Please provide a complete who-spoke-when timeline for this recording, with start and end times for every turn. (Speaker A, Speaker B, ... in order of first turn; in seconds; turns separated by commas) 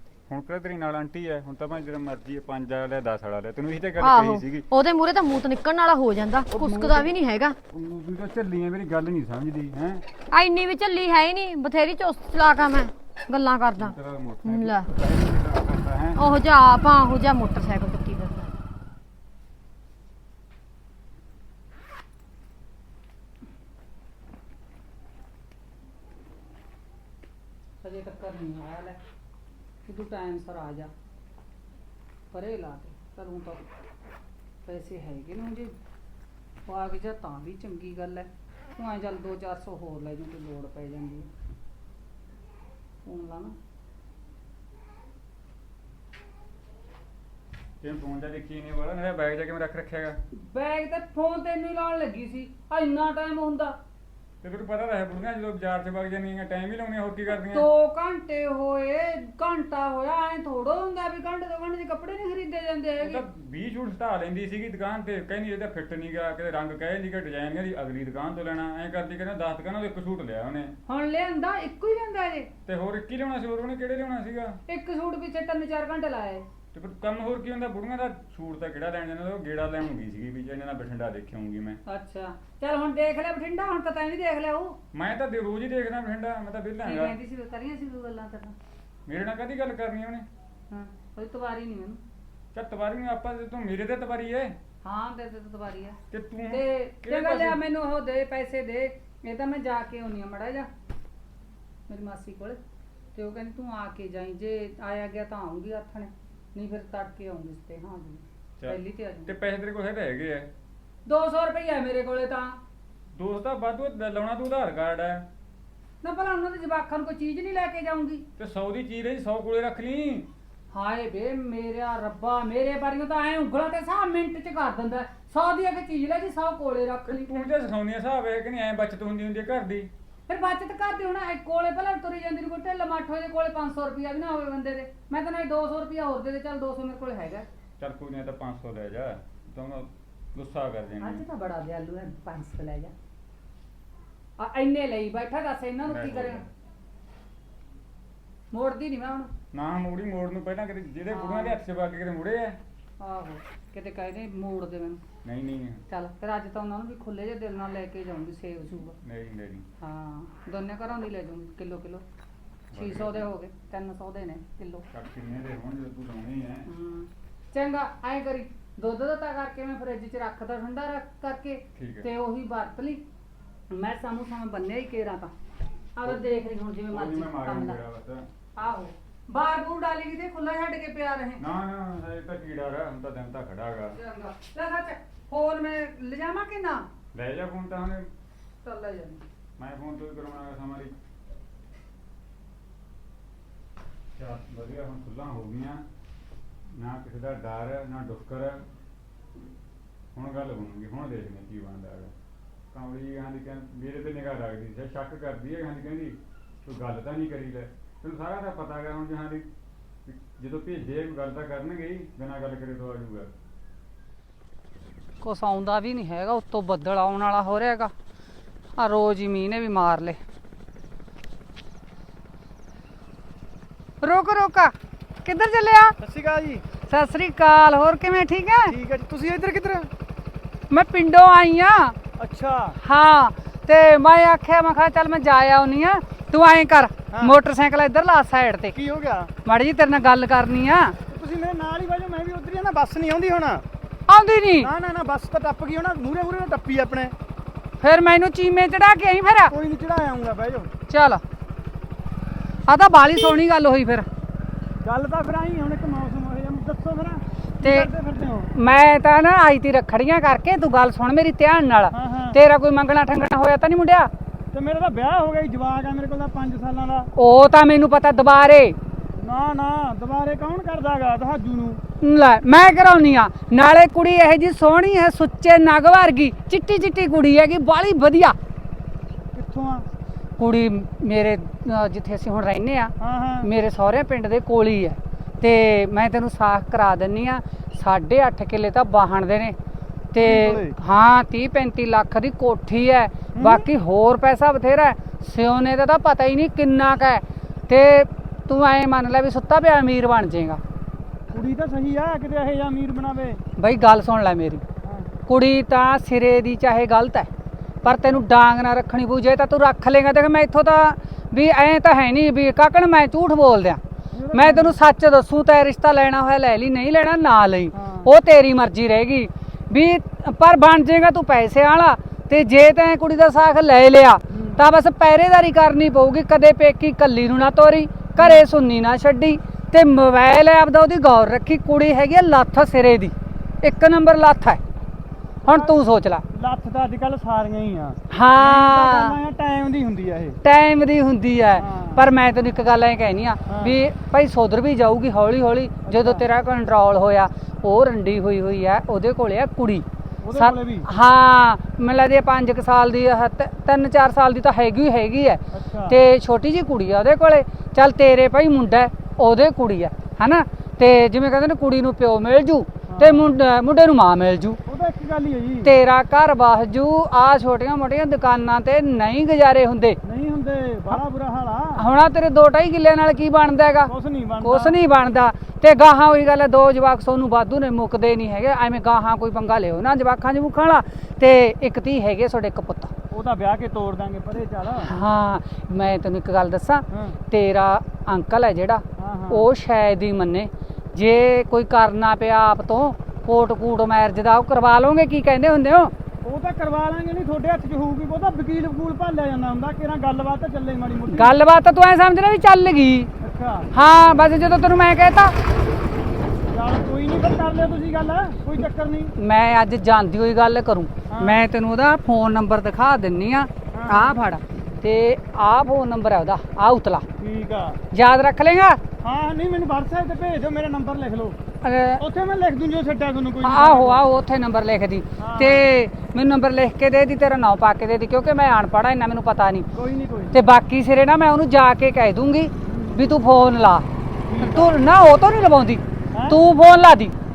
Speaker A: 0.3-4.7, Speaker B: 4.0-7.5, Speaker A: 6.5-7.1, Speaker A: 7.7-10.0, Speaker B: 10.3-14.9, Speaker A: 13.8-16.2, Speaker B: 16.1-18.5, Speaker C: 27.8-29.0, Speaker C: 29.9-30.9, Speaker C: 32.3-33.6, Speaker C: 34.6-35.7, Speaker C: 36.6-41.3, Speaker C: 43.0-43.5, Speaker A: 47.8-50.2, Speaker C: 50.3-53.8, Speaker A: 54.4-57.7, Speaker C: 57.4-63.2, Speaker A: 63.0-70.8, Speaker C: 70.9-72.5, Speaker A: 72.7-74.6, Speaker C: 74.7-76.5, Speaker A: 76.7-81.8, Speaker C: 81.9-84.8, Speaker A: 84.9-87.2, Speaker C: 86.8-88.5, Speaker A: 89.1-90.3, Speaker C: 90.7-92.0, Speaker A: 92.5-94.5, Speaker C: 94.8-96.0, Speaker A: 96.1-97.6, Speaker C: 96.5-100.7, Speaker C: 101.9-102.6, Speaker C: 103.1-109.3, Speaker A: 108.6-110.5, Speaker C: 111.0-112.6, Speaker A: 113.1-115.3, Speaker C: 116.0-118.2, Speaker A: 118.4-120.3, Speaker C: 120.7-127.3, Speaker A: 127.1-129.9, Speaker C: 130.3-137.5, Speaker A: 137.8-141.2, Speaker C: 141.0-142.9, Speaker C: 144.4-146.4, Speaker A: 145.9-146.5, Speaker C: 148.5-149.3, Speaker A: 149.5-152.6, Speaker C: 151.1-151.6, Speaker C: 153.0-155.0, Speaker A: 155.2-155.8, Speaker C: 155.9-159.0, Speaker A: 159.0-159.7, Speaker C: 159.8-162.0, Speaker A: 162.7-163.2, Speaker C: 162.8-164.8, Speaker A: 164.9-166.7, Speaker C: 166.7-173.0, Speaker A: 171.8-172.1, Speaker C: 173.7-175.3, Speaker C: 175.9-177.8, Speaker A: 176.9-178.3, Speaker C: 178.6-181.4, Speaker A: 181.4-184.0, Speaker C: 183.9-186.9, Speaker A: 187.1-188.1, Speaker C: 188.6-189.2, Speaker A: 189.6-190.9, Speaker A: 194.2-195.8, Speaker A: 196.7-198.6, Speaker A: 200.1-202.1, Speaker A: 202.7-209.5, Speaker A: 210.1-213.3, Speaker C: 215.2-217.9, Speaker C: 218.8-220.2, Speaker C: 224.0-225.9, Speaker D: 226.0-226.6, Speaker C: 226.9-228.7, Speaker D: 228.7-229.9, Speaker C: 230.7-231.9, Speaker D: 232.2-232.8, Speaker C: 232.8-238.7, Speaker D: 237.1-237.3, Speaker D: 238.7-239.3, Speaker C: 239.4-241.0, Speaker D: 241.1-243.6, Speaker C: 244.1-244.7, Speaker D: 244.6-247.1, Speaker C: 247.8-249.5, Speaker D: 249.5-250.7, Speaker C: 250.9-251.2, Speaker C: 252.7-254.1, Speaker D: 254.8-258.5, Speaker C: 257.6-257.9, Speaker C: 258.5-264.1, Speaker D: 261.9-262.4, Speaker D: 264.5-267.1, Speaker C: 267.1-268.8, Speaker D: 269.2-271.8, Speaker C: 272.0-278.4, Speaker D: 279.3-279.9, Speaker C: 280.4-289.6, Speaker D: 283.0-283.5, Speaker C: 290.1-300.6, Speaker D: 290.2-290.7, Speaker D: 293.4-293.6, Speaker D: 301.3-303.4, Speaker C: 303.6-304.6, Speaker D: 304.8-305.1, Speaker C: 305.3-307.3, Speaker C: 307.8-313.8, Speaker D: 307.9-308.2, Speaker D: 314.1-314.7, Speaker C: 314.3-334.6, Speaker D: 317.7-318.1, Speaker D: 324.3-324.6, Speaker D: 328.2-328.4, Speaker C: 335.4-336.2, Speaker D: 335.5-335.8, Speaker D: 336.3-340.4, Speaker C: 338.1-339.1, Speaker C: 340.4-364.6, Speaker D: 341.6-342.0, Speaker D: 343.5-343.8, Speaker D: 345.9-346.2, Speaker D: 350.2-350.9, Speaker D: 355.5-355.9, Speaker D: 362.9-363.3, Speaker D: 364.6-365.7, Speaker C: 365.6-370.0, Speaker D: 370.0-371.8, Speaker C: 371.8-382.9, Speaker D: 373.9-374.7, Speaker D: 383.1-384.9, Speaker C: 384.8-395.9, Speaker D: 386.9-387.2, Speaker D: 389.0-389.4, Speaker D: 396.2-401.3, Speaker C: 401.1-403.1, Speaker D: 403.2-403.7, Speaker C: 403.7-405.3, Speaker D: 406.5-409.1, Speaker C: 409.2-417.1, Speaker D: 411.1-411.4, Speaker D: 413.7-414.1, Speaker D: 417.2-417.8, Speaker C: 417.9-418.8, Speaker D: 419.0-421.4, Speaker C: 421.6-422.0, Speaker D: 422.0-424.0, Speaker C: 423.4-429.7, Speaker D: 425.2-425.6, Speaker D: 429.7-430.3, Speaker C: 430.3-433.9, Speaker D: 432.6-433.0, Speaker D: 434.3-434.7, Speaker C: 434.4-437.1